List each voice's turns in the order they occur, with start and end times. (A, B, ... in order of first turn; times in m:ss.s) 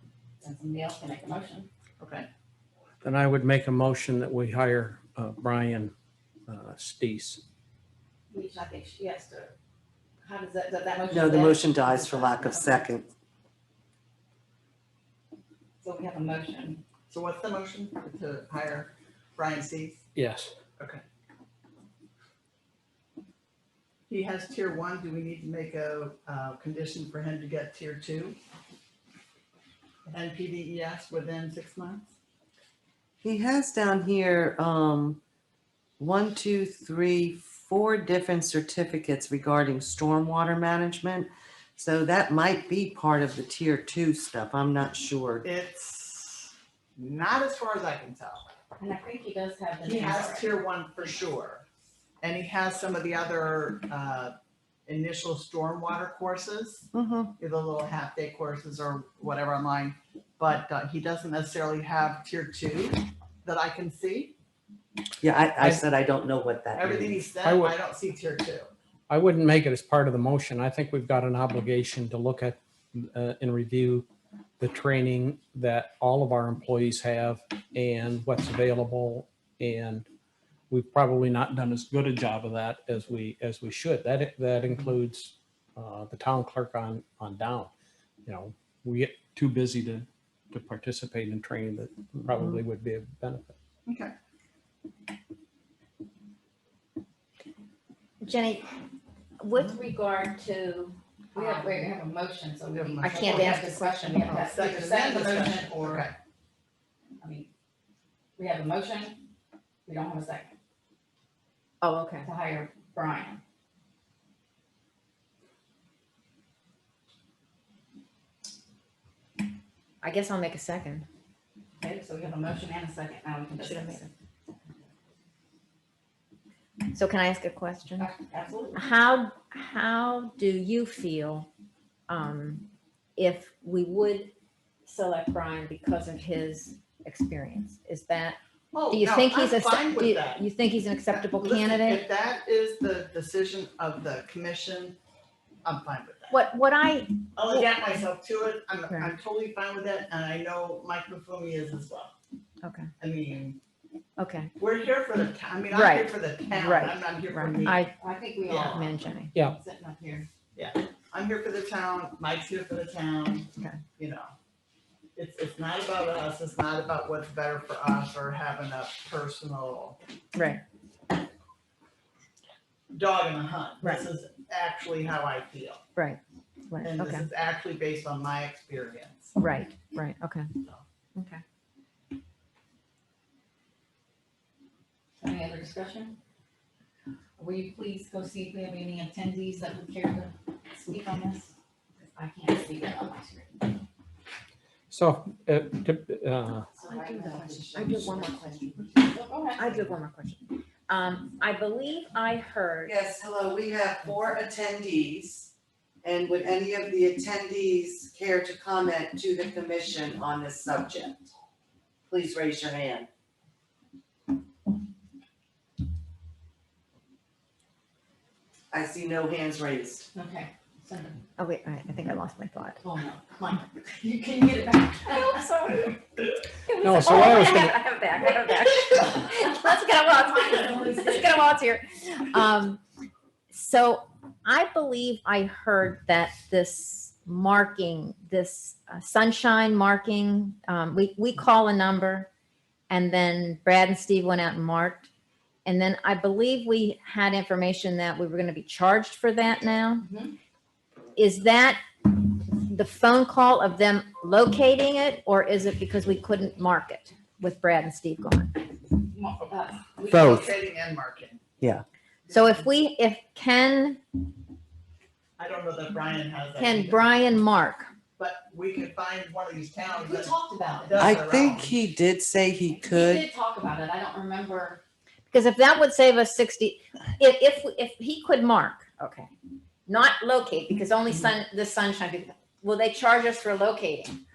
0:00.4-0:01.7 A
0:02.0-0:02.3 B
0:03.0-0:05.9 C
0:06.5-0:07.4 C
0:08.3-0:09.5 A
0:10.2-0:12.9 A
0:11.1-0:13.1 D
0:15.8-0:16.8 A
0:17.1-0:20.0 B
0:20.2-0:20.5 C
0:20.8-0:21.0 B
0:24.1-0:28.4 B
0:30.1-0:32.1 B
0:33.2-0:35.2 D
0:36.0-0:45.5 D
0:45.4-0:48.5 B
0:48.8-0:50.6 A
0:49.8-0:51.6 B
0:52.2-1:04.3 B
0:56.9-0:57.3 D
1:05.2-1:07.2 D
1:06.8-1:08.7 B
1:07.4-1:07.8 C
1:09.1-1:14.1 C
1:14.6-1:20.1 C
1:20.7-1:27.7 C
1:28.3-1:33.6 C
1:33.9-1:34.1 B
1:38.2-1:38.7 E
1:39.4-1:41.9 E
1:41.4-1:46.1 A
1:42.7-1:43.7 B
1:43.0-1:43.8 E
1:44.3-1:46.1 B
1:47.2-1:47.5 A
1:48.4-1:49.2 A
1:49.9-1:50.5 A
1:51.8-1:52.3 E
1:52.2-1:53.4 A
2:00.0-2:01.1 E
2:01.8-2:04.1 A
2:03.6-2:04.1 E
2:06.9-2:08.1 E
2:08.0-2:08.9 A
2:08.8-2:11.5 E
2:12.1-2:14.3 E
2:14.8-2:18.4 E
2:18.7-2:20.4 B
2:18.9-2:22.0 E
2:21.1-2:25.0 B
2:25.6-2:26.4 B
2:26.3-2:27.7 E
2:27.4-2:32.1 B
2:28.9-2:29.1 E
2:32.6-2:32.9 E
2:33.0-2:33.6 B
2:34.2-2:34.5 E
2:34.6-2:37.8 B
2:35.7-2:37.9 E
2:38.0-2:40.3 A
2:38.5-2:38.9 B
2:38.6-2:39.3 E
2:40.6-2:44.3 B
2:45.2-2:50.0 B
2:50.4-2:50.6 E
2:52.9-2:55.8 B
2:56.0-2:57.3 E
2:56.8-2:59.4 B
2:59.4-3:00.5 E
3:01.2-3:01.4 E
3:05.2-3:06.2 A
3:07.4-3:13.8 A
3:14.9-3:16.7 C
3:16.7-3:19.8 A
3:16.8-3:23.0 E
3:22.8-3:25.5 D
3:26.0-3:31.3 D
3:32.1-3:33.1 D
3:38.7-3:40.1 D
3:40.1-3:41.2 A
3:41.4-3:42.8 E
3:42.8-3:46.0 A
3:45.2-3:45.7 E
3:46.7-3:52.8 E
3:46.8-3:47.8 C
3:50.2-3:51.4 A
3:53.5-4:02.3 E
4:02.9-4:05.1 E
4:05.6-4:10.1 E
4:10.0-4:10.4 A
4:11.2-4:18.6 E
4:19.0-4:20.5 A
4:20.0-4:21.4 B
4:20.1-4:20.4 D
4:22.3-4:22.6 B
4:22.3-4:24.0 E
4:25.4-4:27.1 B
4:26.6-4:27.9 E
4:28.2-4:31.8 B
4:30.0-4:31.1 A
4:31.0-4:33.3 D
4:32.8-4:34.8 A
4:35.3-4:39.3 E
4:39.9-4:44.2 E